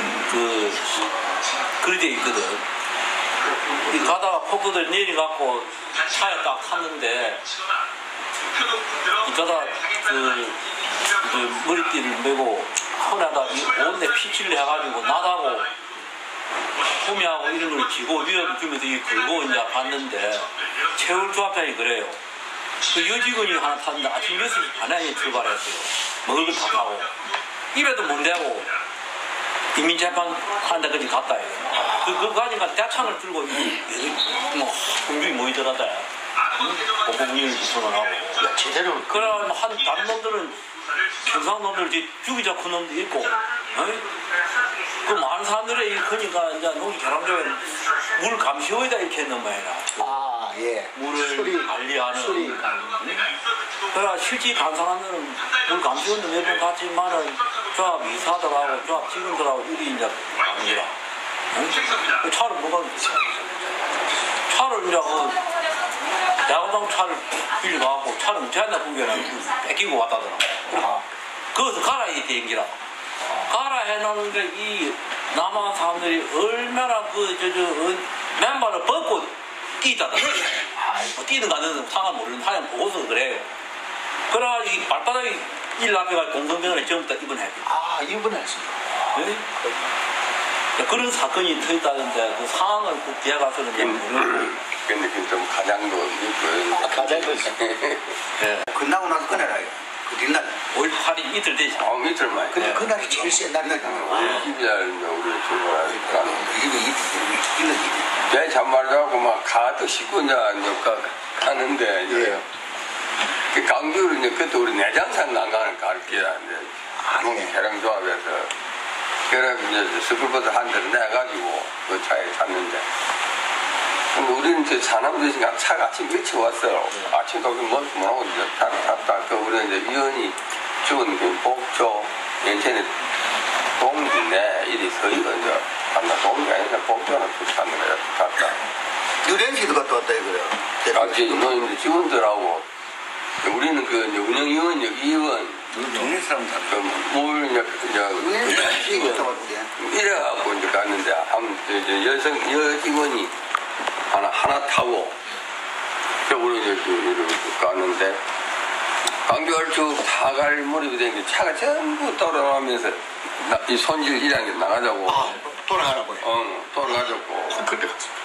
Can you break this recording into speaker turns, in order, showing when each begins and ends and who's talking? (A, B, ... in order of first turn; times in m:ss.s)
0:00.2-0:00.9 A
0:01.8-0:02.6 A
0:03.8-0:07.5 A
0:09.2-0:15.7 A
0:16.9-0:22.2 A
0:22.9-0:27.2 A
0:27.7-0:28.7 A
0:29.7-0:38.4 A
0:31.7-0:32.3 B
0:38.4-0:39.5 B
0:39.1-0:44.0 A
0:45.0-0:50.2 A
0:50.0-0:53.0 B
0:50.9-0:53.3 A
0:53.9-1:00.9 A
1:01.5-1:03.4 A
1:04.4-1:05.5 A
1:06.3-1:12.8 A
1:10.7-1:11.0 B
1:13.4-1:23.5 A
1:24.3-1:27.7 A
1:27.6-1:29.3 B
1:29.2-1:29.5 A
1:30.8-1:34.5 A
1:33.8-1:38.2 C
1:36.7-1:37.5 B
1:38.4-1:38.7 A
1:38.7-1:40.5 D
1:40.7-1:41.8 A
1:41.8-1:42.8 C
1:42.5-1:44.5 B
1:42.6-1:42.9 A
1:42.6-1:44.5 D
1:43.8-1:46.5 C
1:44.1-1:44.5 A
1:45.8-1:48.1 D
1:48.3-1:52.4 C
1:52.1-1:52.4 B
1:53.5-1:58.5 C
1:57.0-1:57.6 B
1:59.3-2:02.8 C
2:04.1-2:12.9 C
2:13.8-2:18.6 C
2:19.2-2:21.6 D
2:20.9-2:22.7 C
2:23.4-2:25.8 C
2:25.8-2:26.8 D
2:25.8-2:26.1 B
2:26.6-2:33.3 C
2:28.2-2:29.7 D
2:34.1-2:35.2 C
2:36.3-2:38.2 C
2:39.2-2:45.4 C
2:45.1-2:46.3 B
2:46.2-2:47.7 C
2:46.8-2:48.1 B